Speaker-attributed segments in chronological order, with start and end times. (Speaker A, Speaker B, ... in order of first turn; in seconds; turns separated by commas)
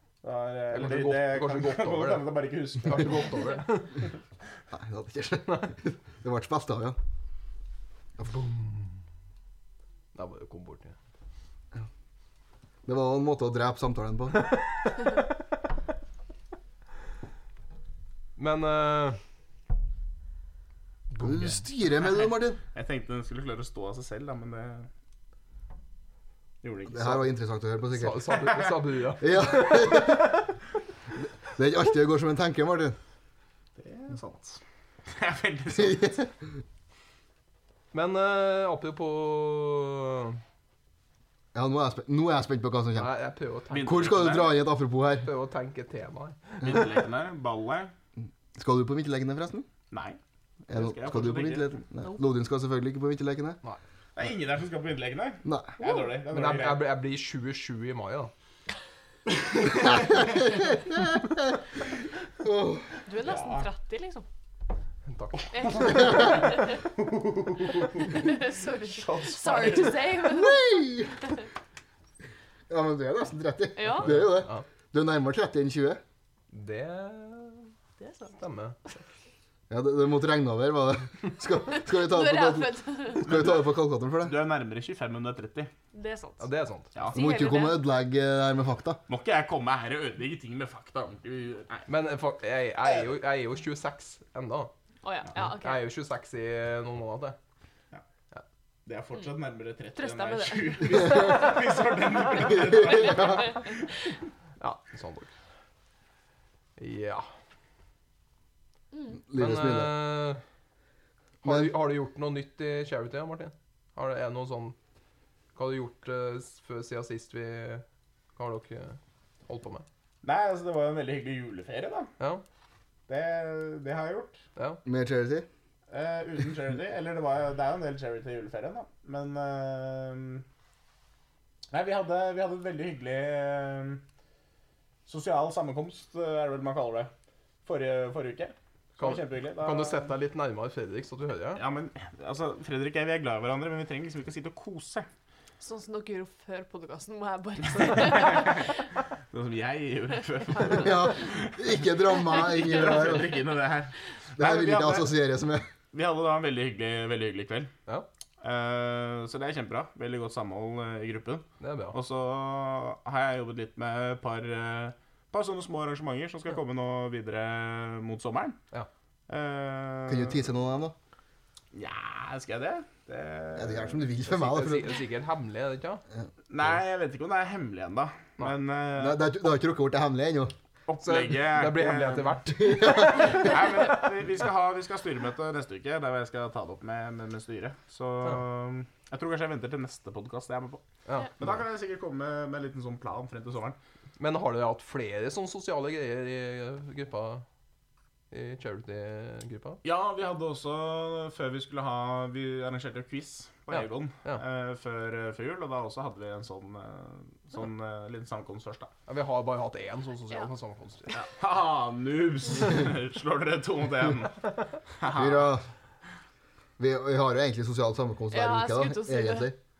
Speaker A: 0.2-3.2, Speaker B: 0.7-2.3, Speaker B: 2.8-4.0, Speaker C: 4.7-7.0, Speaker B: 5.5-5.7, Speaker B: 10.1-10.9, Speaker C: 12.8-14.5, Speaker B: 18.4-19.2, Speaker B: 21.1-21.6, Speaker C: 21.2-22.6, Speaker A: 22.7-24.9, Speaker A: 26.6-27.3, Speaker C: 26.9-28.2, Speaker B: 27.9-30.4, Speaker C: 29.2-30.3, Speaker C: 31.6-33.0, Speaker A: 33.8-36.2, Speaker C: 35.8-36.2, Speaker B: 37.9-40.4, Speaker C: 41.5-43.1, Speaker B: 42.9-44.4, Speaker A: 43.7-44.5, Speaker C: 43.8-45.3, Speaker B: 45.2-46.9, Speaker A: 46.6-47.9, Speaker C: 48.5-49.6, Speaker A: 49.9-50.2, Speaker C: 50.7-53.6, Speaker A: 50.7-51.8, Speaker A: 54.1-56.9, Speaker C: 55.4-55.7, Speaker B: 56.3-58.3, Speaker C: 59.7-61.6, Speaker C: 62.4-62.9, Speaker D: 63.0-64.2, Speaker A: 63.2-63.6, Speaker B: 65.1-66.2, Speaker D: 65.5-66.8, Speaker A: 66.0-70.1, Speaker D: 68.0-71.0, Speaker C: 70.2-71.3, Speaker C: 72.7-76.0, Speaker D: 73.8-74.3, Speaker B: 74.0-74.7, Speaker B: 76.5-77.7, Speaker D: 78.0-78.3, Speaker B: 78.4-78.8, Speaker C: 79.7-84.4, Speaker D: 81.7-83.4, Speaker A: 83.2-85.7, Speaker D: 85.9-86.4, Speaker B: 86.4-86.9, Speaker A: 86.9-87.2, Speaker D: 87.1-87.8, Speaker C: 87.1-89.0, Speaker A: 89.1-91.9, Speaker B: 91.9-94.7, Speaker D: 95.0-95.8, Speaker B: 95.4-97.4, Speaker A: 98.8-103.9, Speaker D: 100.0-101.5, Speaker D: 102.4-103.7, Speaker C: 102.6-103.4, Speaker B: 104.6-105.3, Speaker B: 106.8-107.3, Speaker C: 109.2-109.9, Speaker B: 109.3-110.4, Speaker B: 111.4-114.8, Speaker C: 111.4-111.7, Speaker B: 115.5-117.8, Speaker B: 118.4-119.8, Speaker A: 120.2-122.1, Speaker A: 123.1-124.4, Speaker B: 124.5-124.8, Speaker C: 124.8-125.5, Speaker A: 125.9-130.4, Speaker A: 131.7-134.0, Speaker A: 135.1-137.1, Speaker A: 137.6-140.1, Speaker B: 139.0-141.6, Speaker A: 141.6-145.1, Speaker D: 145.6-148.7, Speaker A: 147.9-148.7, Speaker A: 149.3-155.1, Speaker C: 150.8-153.3, Speaker C: 154.4-155.7, Speaker A: 155.9-157.7, Speaker A: 158.4-168.6, Speaker B: 161.6-162.0, Speaker A: 169.3-170.5, Speaker C: 170.1-170.9, Speaker A: 171.7-174.0, Speaker C: 173.6-174.9, Speaker B: 174.3-176.0, Speaker A: 176.5-179.3, Speaker C: 179.0-180.5, Speaker B: 180.9-183.6, Speaker A: 181.0-190.8, Speaker C: 182.6-183.5, Speaker B: 191.1-191.5, Speaker A: 191.4-193.8, Speaker B: 194.2-197.4, Speaker B: 198.3-199.8, Speaker A: 199.8-208.9, Speaker B: 203.7-204.4, Speaker B: 209.1-211.2, Speaker A: 211.2-214.4, Speaker A: 215.0-215.5, Speaker C: 215.1-215.6, Speaker C: 216.8-219.6, Speaker D: 218.3-219.5